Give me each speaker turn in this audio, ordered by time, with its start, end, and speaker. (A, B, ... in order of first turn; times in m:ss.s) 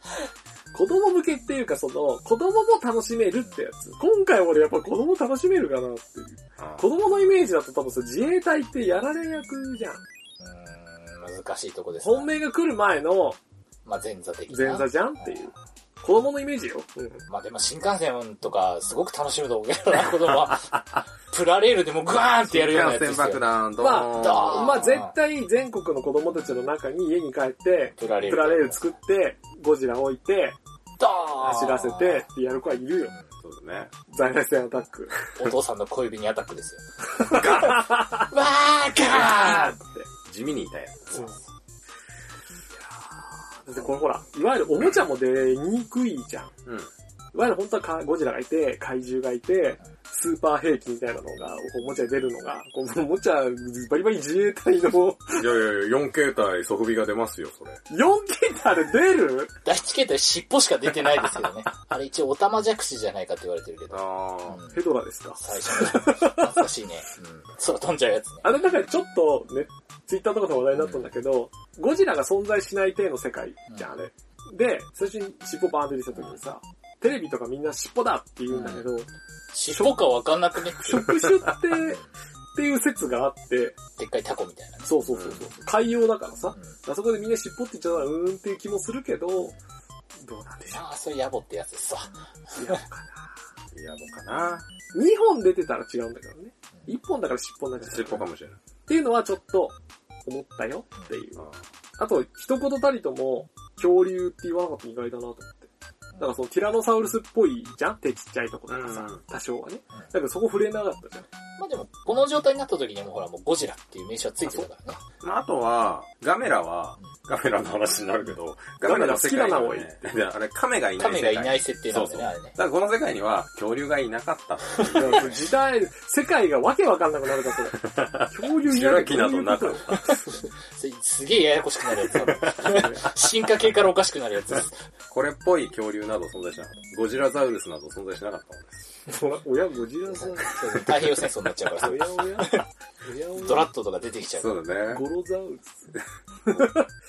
0:00.7-0:10.0 A
0:06.6-0:06.9 B
0:10.4-0:12.3 C
0:12.0-0:13.4 A
0:13.8-0:14.9 C
0:14.5-0:17.2 A
0:17.3-0:25.1 C
0:22.4-0:24.8 B
0:23.8-0:30.6 A
0:28.0-0:28.9 C
0:31.0-0:32.2 C
0:31.4-0:33.1 A
0:33.4-0:33.9 B
0:34.1-0:35.1 A
0:35.4-0:39.8 C
0:37.2-0:38.3 A
0:39.0-0:40.1 A
0:40.2-0:41.3 B
0:43.6-0:46.5 A
0:47.3-0:55.5 A
0:55.3-0:57.8 B
0:57.9-0:59.5 A
0:59.6-1:04.8 C
1:03.9-1:04.6 B
1:04.7-1:06.6 A
1:05.4-1:08.5 C
1:08.4-1:19.1 A
1:18.5-1:18.8 C
1:19.5-1:21.1 C
1:19.7-1:20.2 A
1:20.7-1:22.0 A
1:22.6-1:23.8 A
1:24.0-1:24.9 C
1:24.9-1:29.5 A
1:25.1-1:25.5 B
1:30.2-1:30.8 A
1:30.7-1:32.8 C
1:32.6-1:33.2 A
1:33.7-1:34.7 B
1:34.9-1:38.2 A
1:37.8-1:38.6 B
1:38.9-1:39.8 A
1:40.2-1:41.4 A
1:42.0-1:45.7 A
1:46.2-1:51.3 A
1:48.7-1:49.2 B
1:51.6-1:55.0 C
1:54.4-1:54.7 A
1:55.2-2:05.4 B
1:58.8-2:00.0 A
2:01.0-2:02.6 C
2:04.8-2:05.3 C
2:04.9-2:07.8 A
2:07.8-2:10.2 B
2:08.3-2:09.9 A
2:10.7-2:14.8 C
2:12.5-2:13.0 A
2:15.1-2:18.9 B
2:19.1-2:20.8 A
2:20.1-2:22.6 C
2:21.8-2:23.7 A
2:23.4-2:24.6 C
2:24.4-2:25.0 B
2:24.9-2:25.8 A
2:26.5-2:26.9 A